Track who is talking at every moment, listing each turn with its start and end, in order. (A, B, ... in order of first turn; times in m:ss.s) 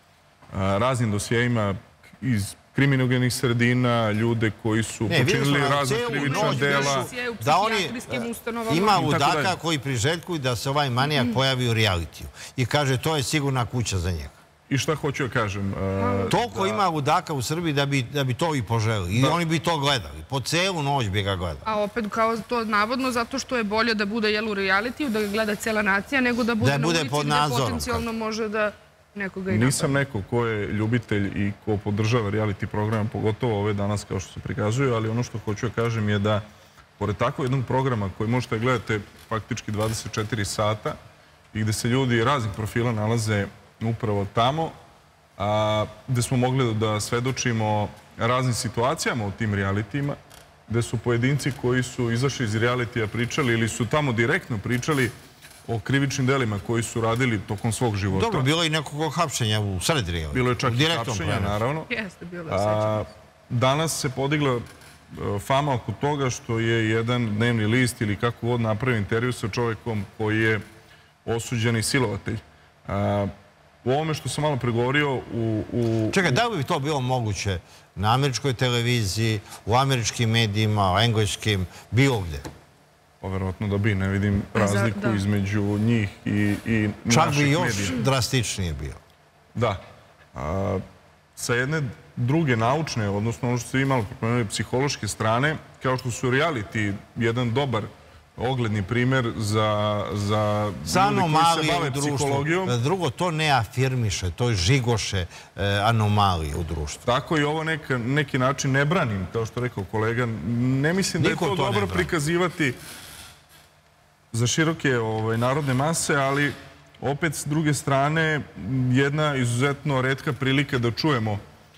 0:00.5-0:07.1 A
0:05.1-0:14.4 B
0:06.2-0:09.0 C
0:08.9-0:09.6 A
0:14.7-0:16.8 A
0:16.0-0:16.4 C
0:16.3-0:21.6 B
0:19.1-0:19.4 A
0:21.6-0:29.9 C
0:26.6-0:28.0 B
0:29.5-0:36.4 A
0:37.0-0:41.0 A
0:41.5-0:44.8 A
0:45.4-0:55.1 A
0:55.7-0:58.5 A
0:58.1-1:01.6 B
1:00.3-1:01.9 A
1:01.9-1:03.1 C
1:02.5-1:10.6 A
1:11.2-1:13.3 A
1:13.8-1:16.4 A
1:16.1-1:22.5 B
1:23.2-1:28.0 A
1:24.6-1:25.2 C
1:27.1-1:29.0 B
1:29.6-1:29.8 A
1:30.4-1:30.8 A
1:31.4-1:42.8 A
1:40.9-1:47.1 B
1:47.1-1:52.8 A
1:51.2-1:52.1 B
1:54.3-2:01.4 A